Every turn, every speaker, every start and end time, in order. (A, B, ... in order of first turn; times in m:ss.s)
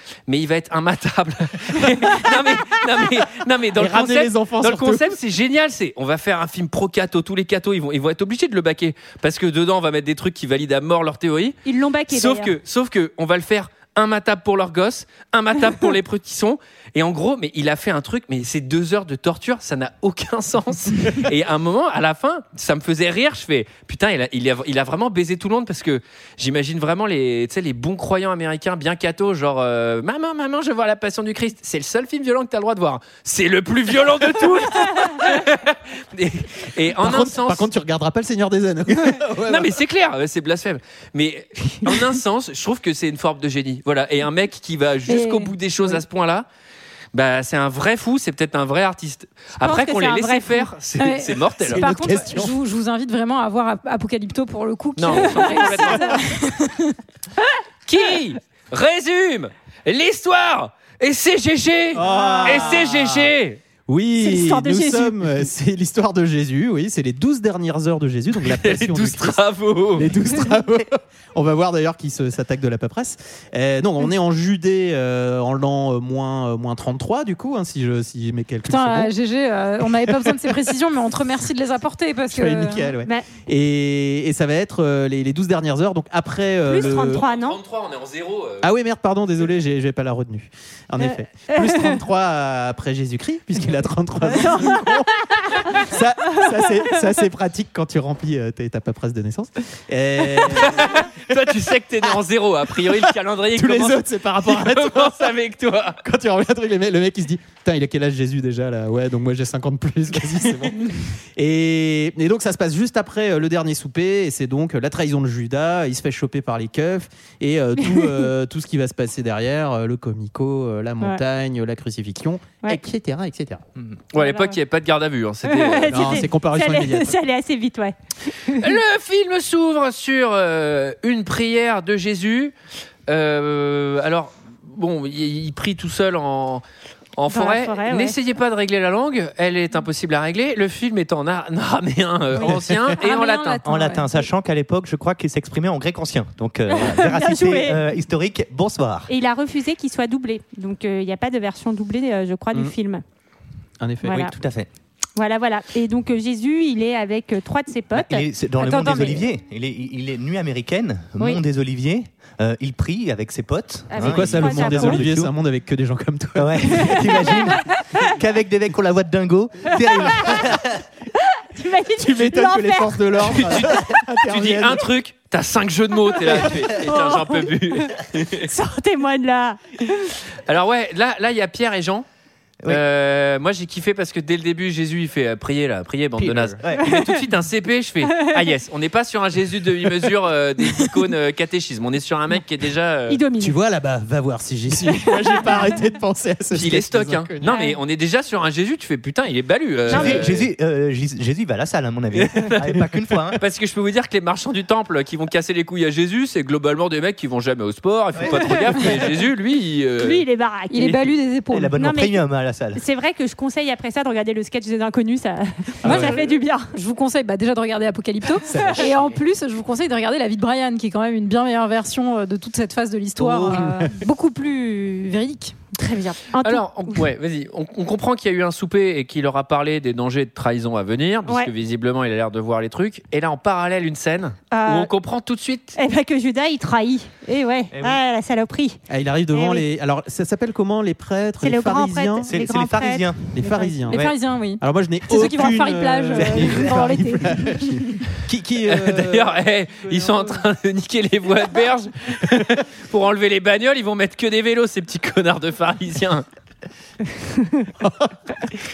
0:00.3-0:11.6 A
0:03.8-0:05.2 B
0:11.6-0:12.5 C
0:12.1-0:37.7 A
0:37.0-0:39.8 B
0:39.2-0:46.4 A
0:45.1-0:45.5 D
0:47.1-0:51.9 A
0:49.6-0:50.7 C
0:51.0-0:57.0 D
0:51.6-0:52.5 B
0:55.0-0:56.1 A
0:57.9-1:03.6 A
1:01.9-1:03.3 B
1:02.0-1:02.8 C
1:03.9-1:09.4 B
1:04.2-1:05.4 C
1:08.3-1:10.2 A
1:10.0-1:19.1 B
1:18.7-1:22.9 D
1:20.0-1:20.5 B
1:22.3-1:27.2 B
1:23.0-1:23.3 C
1:26.6-1:27.6 C
1:26.7-1:28.7 A
1:28.6-1:41.6 B
1:31.0-1:32.0 C
1:34.2-1:36.4 C
1:40.4-1:46.0 A
1:43.5-1:45.3 B
1:46.0-2:03.6 B
2:04.1-2:06.2 A
2:04.2-2:04.6 C
2:05.4-2:08.8 C
2:05.9-2:07.2 B
2:08.6-2:12.5 A
2:13.1-2:16.6 A
2:17.2-2:23.6 A
2:17.3-2:18.2 C
2:22.4-2:22.9 B
2:23.0-2:24.3 D
2:23.6-2:29.1 E
2:26.7-2:27.8 C
2:29.1-2:33.0 C
2:33.8-2:34.2 B
2:34.0-2:34.3 C
2:34.1-2:34.7 E
2:35.2-2:39.2 C
2:37.9-2:45.3 E
2:43.9-2:45.1 C
2:44.0-2:47.1 B
2:46.4-2:50.8 E
2:46.8-2:47.8 C
2:49.9-2:50.6 C
2:51.3-2:54.0 C
2:52.0-2:54.9 B
2:53.3-2:53.7 A
2:54.2-2:58.5 A
2:56.3-3:00.1 C
3:00.4-3:02.0 A
3:02.7-3:13.2 A
3:06.2-3:06.9 E
3:06.7-3:07.2 C
3:08.2-3:08.4 C
3:13.1-3:13.6 C
3:13.4-3:17.5 B
3:14.8-3:15.8 C
3:16.5-3:20.5 A
3:17.4-3:17.8 C
3:19.9-3:23.4 E
3:19.9-3:20.2 C
3:22.1-3:30.2 A
3:28.1-3:28.7 E
3:30.0-3:31.1 C
3:30.7-3:31.8 D
3:31.5-3:32.8 E
3:31.8-3:32.2 C
3:32.7-3:36.7 C
3:35.8-3:36.2 B
3:35.9-3:36.2 E
3:36.7-3:45.6 D
3:38.5-3:38.8 B
3:43.2-3:43.8 E
3:43.5-3:43.9 B
3:45.7-3:47.0 C
3:46.4-3:55.8 A
3:54.5-3:54.9 C
3:55.8-3:59.6 C
3:57.7-3:58.0 E
3:58.9-4:02.3 B
4:01.4-4:03.9 C
4:02.2-4:03.3 E
4:03.3-4:04.1 B
4:03.9-4:07.7 D
4:04.6-4:10.4 B
4:06.3-4:06.7 E
4:08.6-4:16.2 A
4:17.2-4:17.7 C
4:17.8-4:18.1 B